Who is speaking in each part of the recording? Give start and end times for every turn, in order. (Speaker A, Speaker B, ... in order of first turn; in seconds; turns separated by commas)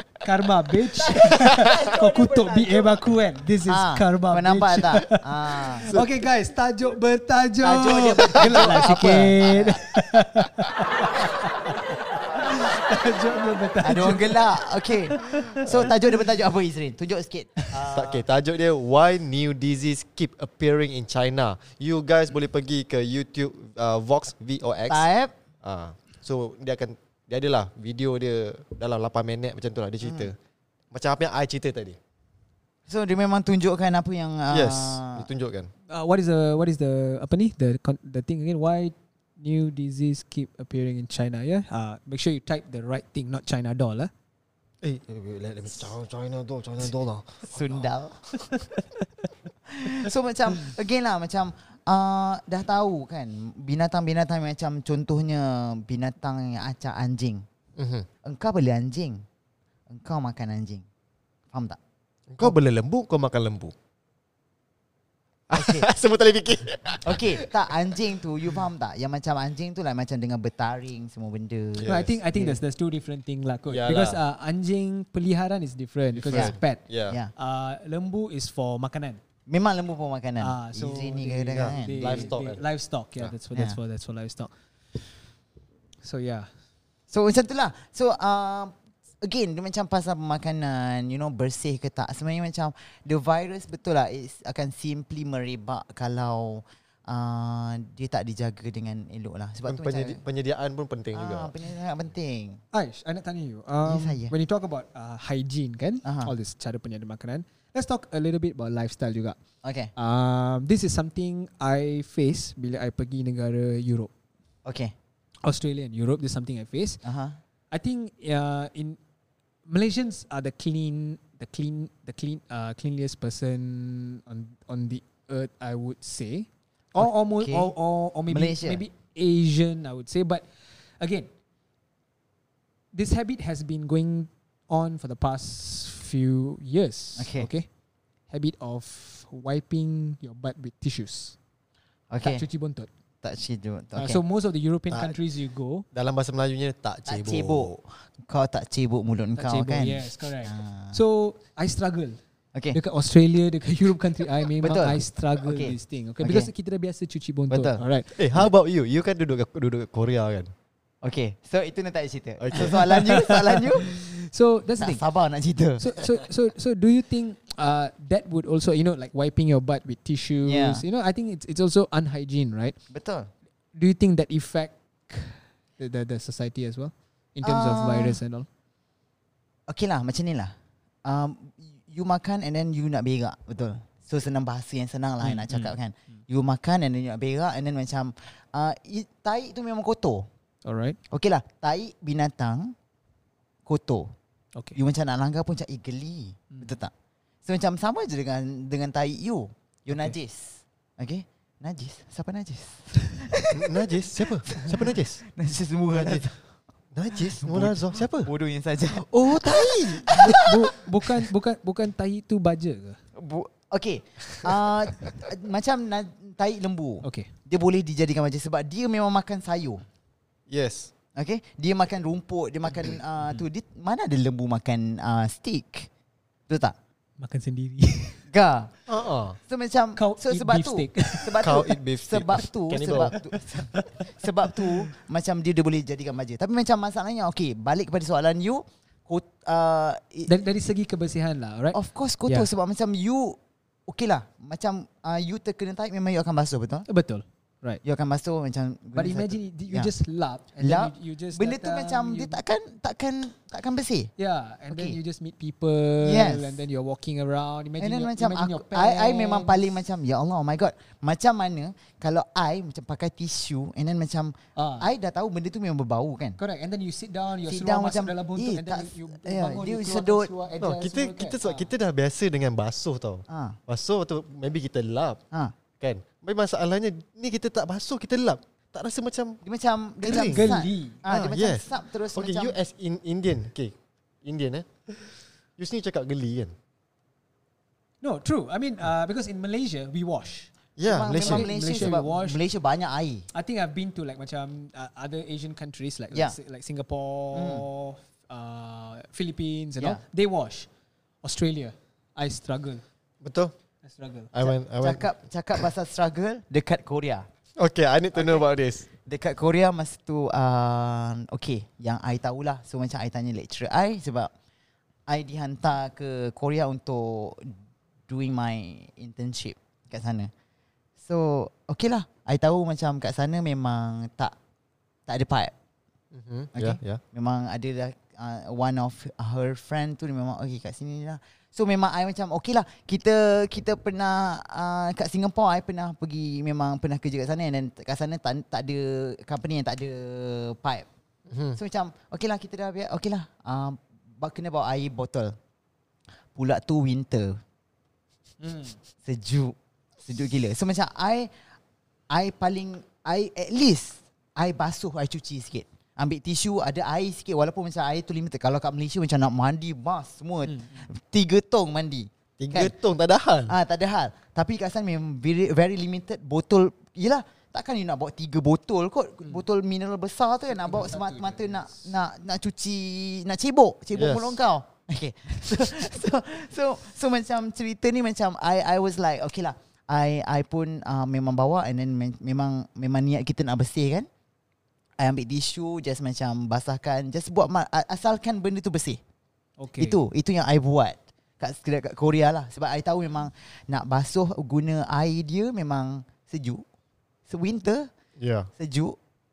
Speaker A: 0.2-15.8, Speaker B: 1.1-1.9, Speaker C: 1.6-3.0, Speaker C: 3.6-5.9, Speaker B: 5.8-6.2, Speaker C: 7.6-9.9, Speaker C: 13.8-18.2, Speaker B: 15.6-15.9, Speaker B: 17.9-25.1, Speaker C: 24.9-25.3, Speaker B: 25.6-30.4, Speaker C: 30.0-30.3, Speaker B: 30.9-32.0, Speaker C: 32.9-35.3, Speaker B: 34.5-35.7, Speaker A: 35.9-44.1, Speaker B: 44.8-47.8, Speaker C: 47.5-48.2, Speaker A: 48.5-48.8, Speaker C: 49.6-57.4, Speaker B: 57.8-58.1, Speaker C: 58.2-59.2, Speaker C: 59.9-60.8, Speaker C: 61.5-61.8, Speaker B: 62.3-63.7, Speaker B: 65.5-67.7, Speaker C: 65.5-65.9, Speaker C: 67.0-72.6, Speaker B: 71.8-72.1, Speaker A: 71.9-76.8, Speaker B: 73.7-74.2, Speaker B: 76.2-77.2, Speaker A: 77.3-79.2, Speaker C: 79.5-82.3, Speaker A: 80.4-85.2, Speaker B: 81.5-82.6, Speaker A: 86.0-86.5, Speaker C: 87.1-100.2, Speaker B: 99.7-101.5, Speaker C: 101.1-102.6, Speaker A: 102.7-109.4, Speaker C: 103.8-104.3, Speaker C: 106.0-106.3, Speaker C: 109.6-109.9, Speaker A: 110.0-114.1, Speaker C: 114.6-114.9, Speaker A: 115.4-117.0, Speaker C: 117.0-117.4, Speaker A: 117.7-119.0, Speaker A: 119.7-131.3, Speaker C: 127.0-127.7, Speaker C: 128.3-128.8, Speaker A: 132.9-137.7, Speaker C: 137.2-137.5, Speaker A: 138.3-141.3, Speaker C: 142.1-142.4, Speaker A: 142.2-142.9, Speaker C: 143.2-144.2, Speaker A: 143.9-145.8, Speaker B: 145.9-147.7, Speaker C: 147.1-151.0, Speaker A: 149.3-152.2, Speaker A: 152.7-158.1, Speaker C: 154.6-156.5, Speaker C: 157.5-157.8, Speaker B: 158.1-160.5, Speaker C: 161.0-163.9, Speaker B: 162.4-162.8, Speaker A: 162.6-165.0, Speaker C: 164.8-165.8, Speaker A: 165.8-172.8, Speaker C: 170.4-170.8, Speaker C: 172.9-173.3, Speaker A: 173.7-178.5, Speaker C: 177.4-178.2, Speaker C: 179.7-180.5, Speaker C: 181.0-190.3, Speaker A: 185.2-185.8, Speaker A: 190.6-191.0, Speaker C: 191.1-192.7, Speaker C: 193.7-194.1, Speaker C: 194.7-196.9, Speaker C: 197.4-206.4, Speaker B: 203.5-205.2, Speaker B: 205.9-206.3, Speaker B: 206.9-208.3, Speaker C: 207.1-210.6, Speaker B: 208.9-210.2, Speaker A: 210.1-213.0, Speaker C: 213.2-219.8, Speaker A: 217.0-217.3, Speaker B: 220.5-220.9, Speaker C: 221.1-225.9, Speaker C: 226.5-226.8, Speaker A: 227.2-228.2, Speaker C: 228.3-228.7, Speaker B: 228.9-229.4, Speaker C: 229.5-240.3, Speaker A: 229.9-231.4, Speaker B: 231.4-233.2, Speaker A: 233.7-234.7, Speaker A: 240.3-242.5, Speaker C: 241.7-246.8, Speaker A: 246.9-247.8, Speaker C: 247.8-249.9, Speaker A: 248.9-252.4, Speaker C: 250.6-254.1, Speaker A: 254.2-259.7, Speaker C: 254.7-255.0, Speaker C: 256.0-256.6, Speaker C: 257.8-266.4, Speaker A: 264.6-264.9, Speaker A: 266.4-271.7, Speaker C: 267.4-270.3, Speaker B: 270.6-275.2, Speaker C: 273.3-273.6, Speaker B: 275.8-279.4, Speaker C: 279.4-282.6, Speaker B: 280.0-280.5, Speaker A: 280.1-281.0, Speaker B: 281.1-286.5, Speaker A: 288.0-290.5, Speaker B: 290.8-291.9, Speaker C: 290.9-293.3, Speaker A: 291.1-292.4, Speaker A: 293.3-300.7, Speaker C: 297.3-297.6, Speaker A: 301.2-302.8, Speaker B: 303.2-303.5, Speaker A: 303.8-304.3, Speaker B: 304.3-305.1, Speaker C: 304.4-307.3, Speaker B: 307.6-308.9, Speaker C: 308.1-308.5, Speaker C: 309.0-314.3, Speaker C: 315.1-317.5, Speaker C: 318.1-320.3, Speaker C: 321.0-324.3, Speaker C: 325.1-325.5, Speaker B: 326.1-327.0, Speaker C: 326.5-340.9, Speaker B: 341.3-341.6, Speaker C: 341.5-345.4, Speaker C: 346.3-347.4, Speaker A: 348.4-348.8, Speaker C: 349.0-351.3, Speaker C: 352.1-362.7, Speaker A: 360.4-360.9, Speaker B: 362.4-363.5, Speaker C: 363.5-384.1, Speaker A: 370.5-371.7, Speaker B: 373.9-374.4, Speaker C: 385.0-389.0, Speaker A: 389.6-390.0, Speaker C: 389.8-396.6, Speaker C: 397.3-397.9, Speaker B: 398.2-398.5, Speaker C: 398.6-399.0